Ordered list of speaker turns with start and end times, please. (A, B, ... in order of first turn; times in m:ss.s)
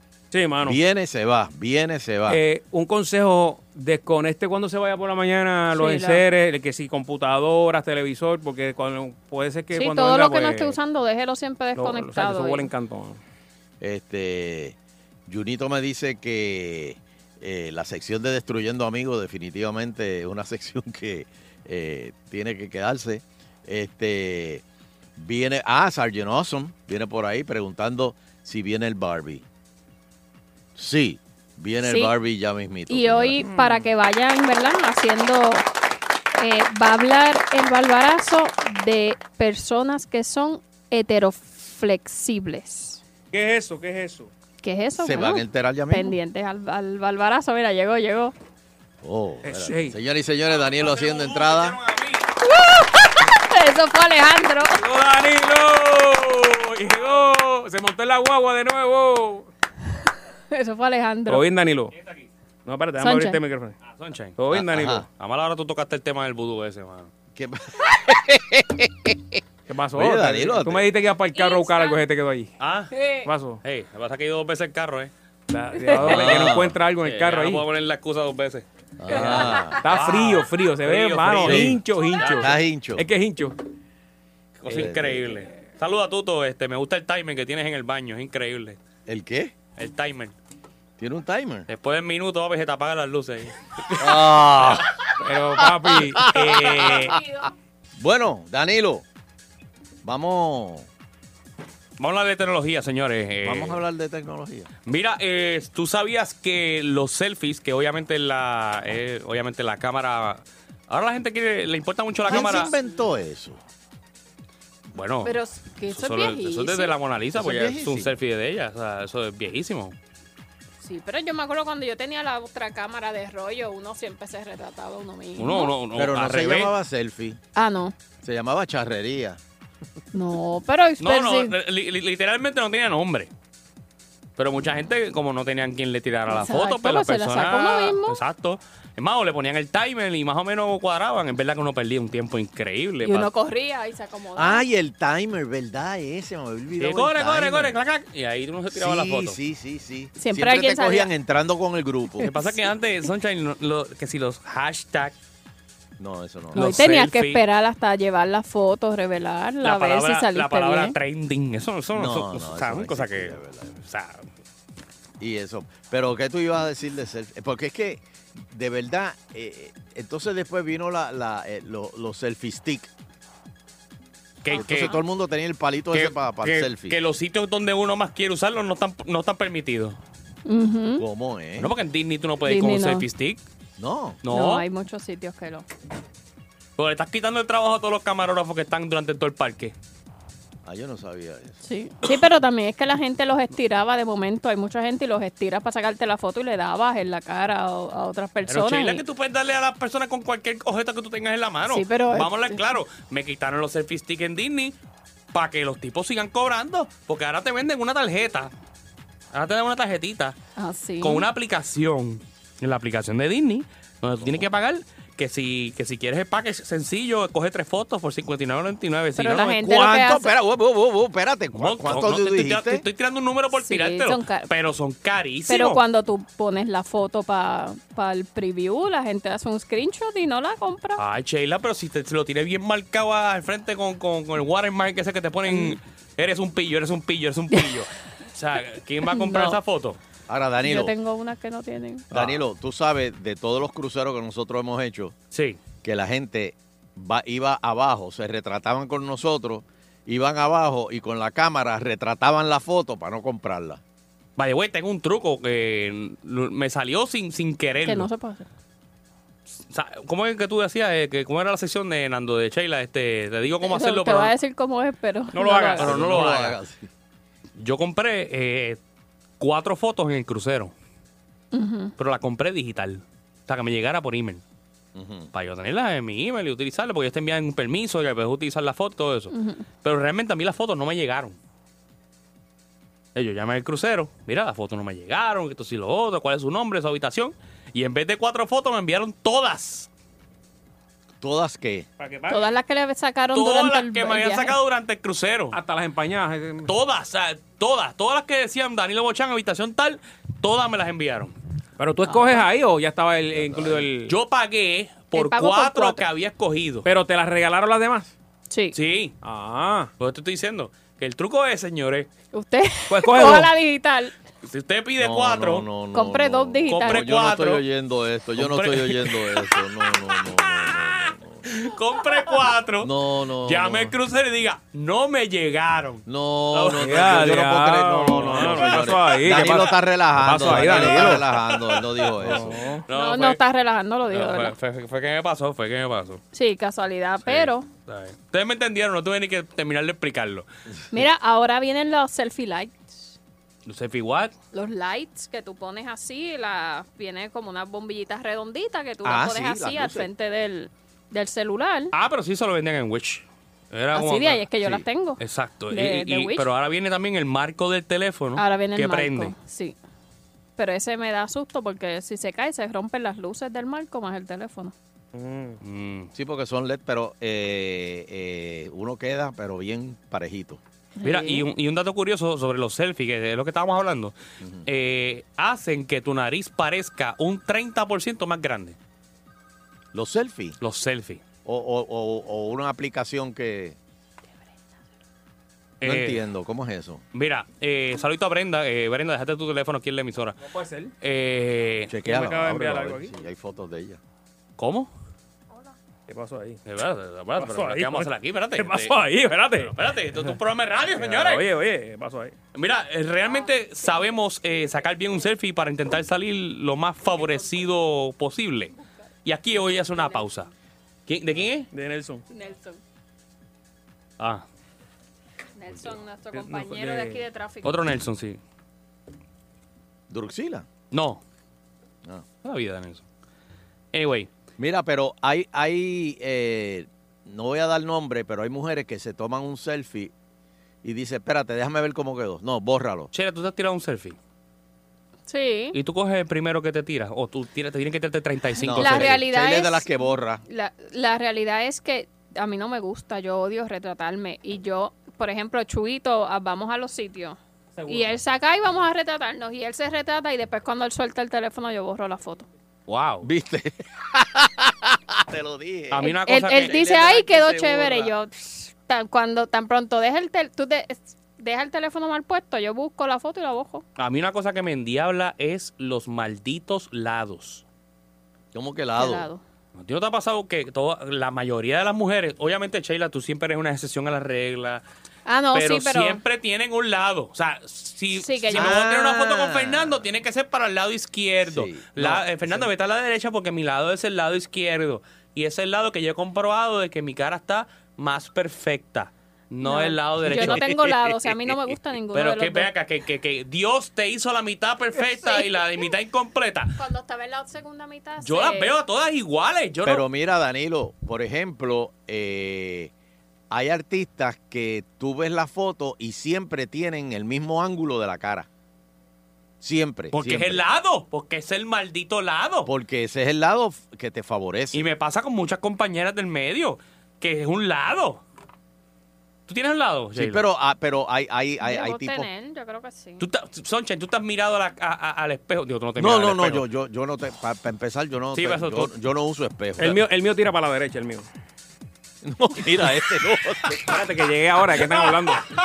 0:00.3-0:00.8 A
0:00.6-0:02.4 B
0:02.3-0:10.8 A
0:05.7-0:06.2 C
0:09.7-0:12.7 C
0:11.8-0:13.2 A
0:13.8-0:24.6 B
0:25.2-0:29.4 B
0:30.8-0:33.4 B
0:31.8-0:32.1 C
0:32.9-0:35.7 C
0:33.4-0:33.9 A
0:36.4-0:43.0 C
0:43.3-0:44.3 A
0:44.6-0:48.3 C
0:45.0-0:46.2 B
0:49.0-0:51.8 B
0:49.4-0:50.0 A
0:50.7-0:52.2 D
0:52.4-0:54.8 C
0:54.8-0:59.5 A
1:00.5-1:01.5 C
1:01.3-1:01.9 A
1:01.9-1:02.3 D
1:02.7-1:03.8 A
1:03.0-1:03.4 C
1:03.8-1:04.4 D
1:04.4-1:05.0 A
1:04.5-1:05.0 B
1:05.1-1:07.1 D
1:07.4-1:09.4 B
1:09.7-1:12.5 A
1:10.0-1:10.9 B
1:11.3-1:12.0 C
1:12.6-1:12.9 D
1:12.9-1:13.3 C
1:13.2-1:13.6 A
1:13.6-1:15.1 D
1:15.5-1:17.7 A
1:16.0-1:16.8 B
1:16.0-1:16.5 D
1:17.0-1:18.6 D
1:19.0-1:19.8 B
1:19.1-1:23.6 A
1:19.2-1:19.8 C
1:19.9-1:22.5 D
1:21.4-1:21.8 B
1:22.4-1:23.1 B
1:24.6-1:28.8 D
1:24.7-1:25.4 B
1:29.1-1:29.5 B
1:29.8-1:30.4 D
1:31.0-1:31.7 B
1:31.7-1:34.8 D
1:34.0-1:34.9 B
1:35.2-1:37.2 A
1:35.6-1:37.1 B
1:36.6-1:37.5 C
1:38.0-1:39.0 B
1:40.0-1:40.9 B
1:42.0-1:43.8 D
1:43.4-1:44.7 B
1:44.9-1:52.7 D
1:52.3-1:53.6 B
1:52.3-1:53.0 C
1:54.9-2:00.0 D
1:55.2-1:57.0 C
1:57.4-1:58.1 B
2:00.8-2:05.8 C
2:05.4-2:06.7 D
2:06.0-2:07.4 B
2:07.6-2:08.0 C
2:08.2-2:09.4 B
2:10.1-2:11.5 C
2:11.0-2:13.3 D
2:14.4-2:23.3 D
2:16.3-2:18.2 C
2:23.0-2:24.7 C
2:24.4-2:27.8 B
2:26.8-2:29.4 D
2:28.7-2:32.3 B
2:30.2-2:31.1 C
2:32.2-2:35.2 D
2:32.2-2:32.6 C
2:36.0-2:36.6 B
2:36.5-2:37.4 D
2:36.6-2:41.0 C
2:39.6-2:44.3 D
2:41.9-2:43.8 B
2:45.2-2:52.9 B
2:54.4-2:55.0 D
2:54.5-2:55.0 C
2:54.5-2:57.0 B
2:55.9-3:00.0 D
3:00.5-3:01.0 C
3:01.0-3:01.7 B
3:01.6-3:03.4 D
3:02.4-3:03.1 C
3:03.8-3:04.2 B
3:04.2-3:04.7 D
3:04.3-3:05.7 C
3:06.8-3:09.8 D
3:10.6-3:11.6 B
3:11.6-3:19.0 C
3:18.5-3:24.7 D
3:21.6-3:22.6 C
3:25.3-3:28.5 D
3:29.3-3:30.4 D
3:30.6-3:31.3 C
3:31.0-3:39.7 D
3:39.2-3:40.3 C
3:39.6-3:42.8 B
3:41.5-3:45.8 D
3:43.5-3:44.5 C
3:45.5-3:51.0 C
3:51.0-4:00.0 D
3:55.5-3:55.8 C
3:57.5-3:57.8 C
3:59.0-3:59.6 C
4:00.3-4:00.9 B
4:00.6-4:02.1 C
4:02.1-4:05.2 B
4:05.3-4:05.6 D
4:05.8-4:13.8 B
4:14.4-4:18.1 D
4:17.8-4:18.5 C
4:19.6-4:24.4 D
4:23.6-4:25.9 C
4:25.3-4:25.9 A
4:25.8-4:26.6 D
4:25.8-4:26.9 B
4:27.6-4:28.8 D
4:29.4-4:30.7 D
4:31.5-4:31.9 C
4:32.0-4:34.4 D
4:35.0-4:35.3 B
4:35.3-4:41.4 D
4:39.3-4:39.7 C
4:43.2-4:49.9 D
4:51.2-4:51.9 B
4:52.0-4:52.4 A
4:52.3-4:54.6 C
4:53.3-4:55.6 D
4:55.5-4:56.7 A
4:56.7-5:01.4 D
5:01.8-5:04.2 A
5:02.0-5:02.5 C
5:03.3-5:03.9 B
5:04.1-5:06.9 D
5:05.1-5:06.1 C
5:06.8-5:08.1 A
5:08.5-5:08.8 C
5:08.7-5:09.2 D
5:09.2-5:09.9 A
5:10.0-5:12.1 D
5:12.3-5:14.1 C
5:12.9-5:13.5 A
5:14.4-5:15.7 D
5:15.0-5:21.4 B
5:15.9-5:17.1 C
5:16.7-5:17.6 D
5:18.4-5:20.8 D
5:21.5-5:26.8 D
5:22.8-5:24.0 B
5:26.1-5:32.6 B
5:26.7-5:31.2 A
5:28.3-5:28.8 D
5:30.4-5:33.4 D
5:32.2-5:32.8 A
5:32.9-5:34.6 C
5:34.1-5:36.2 D
5:36.3-5:37.7 C
5:37.2-5:40.5 D
5:40.7-5:41.0 B
5:40.9-5:43.1 C
5:43.7-5:44.4 D
5:44.5-5:51.9 C
5:49.0-5:50.1 B
5:51.9-5:54.5 D
5:53.9-5:56.5 C
5:55.2-5:59.4 D
5:58.4-5:59.8 C
6:00.6-6:04.7 C
6:05.1-6:05.6 A
6:05.6-6:06.1 D
6:06.2-6:10.6 B
6:11.0-6:11.4 C
6:11.0-6:14.1 D
6:14.4-6:14.7 B
6:14.7-6:18.8 D
6:19.9-6:20.6 B
6:20.6-6:21.2 D
6:21.4-6:23.8 B
6:25.8-6:26.2 D
6:25.8-6:27.0 B
6:27.1-6:30.4 D
6:30.4-6:30.9 A
6:31.0-6:31.9 D
6:31.9-6:34.0 B
6:32.0-6:33.1 A
6:34.6-6:34.9 D
6:36.1-6:36.6 A
6:36.7-6:39.0 D
6:37.4-6:40.4 A
6:39.6-6:41.5 D
6:40.9-6:42.4 A
6:42.5-6:50.5 D
6:43.2-6:45.3 C
6:47.1-6:47.7 C
6:49.9-6:50.4 C
6:51.1-6:51.7 D
6:51.7-6:52.2 A
6:52.3-6:52.8 C
6:55.6-6:57.9 C
6:56.3-6:57.2 A
6:57.6-6:58.4 D
7:00.1-7:00.7 B
7:00.9-7:01.2 D
7:02.4-7:03.0 D
7:03.9-7:04.3 D
7:04.6-7:10.1 B
7:10.8-7:13.1 B
7:13.1-7:14.2 D
7:15.3-7:15.8 C
7:15.7-7:19.2 D
7:18.5-7:19.9 C
7:18.6-7:20.4 B
7:20.5-7:32.5 C
7:27.8-7:28.1 A
7:32.9-7:33.3 D
7:33.2-7:38.0 B
7:35.9-7:38.1 D
7:36.0-7:43.8 C
7:44.0-7:47.6 D
7:48.5-7:49.3 B
7:49.0-7:49.4 C
7:49.8-7:54.8 D
7:55.3-7:56.2 C
7:55.5-8:10.9 D
7:58.1-7:59.1 C
7:58.5-8:00.0 B
8:01.4-8:02.7 B
8:09.6-8:12.7 C
8:10.3-8:10.6 B
8:12.1-8:16.8 D
8:15.0-8:15.9 C
8:16.8-8:18.8 C
8:18.2-8:20.0 D
8:19.8-8:22.9 B
8:23.5-8:28.5 B
8:29.6-8:30.6 B
8:30.1-8:32.7 D
8:32.6-8:34.9 B
8:34.7-8:38.2 D
8:39.5-8:40.4 D
8:40.2-8:42.3 B
8:41.6-8:43.2 C
8:43.2-8:46.6 D
8:46.0-8:50.0 B
8:48.4-8:48.9 D
8:49.8-8:51.3 A
8:52.2-8:53.9 B
8:53.7-8:55.5 A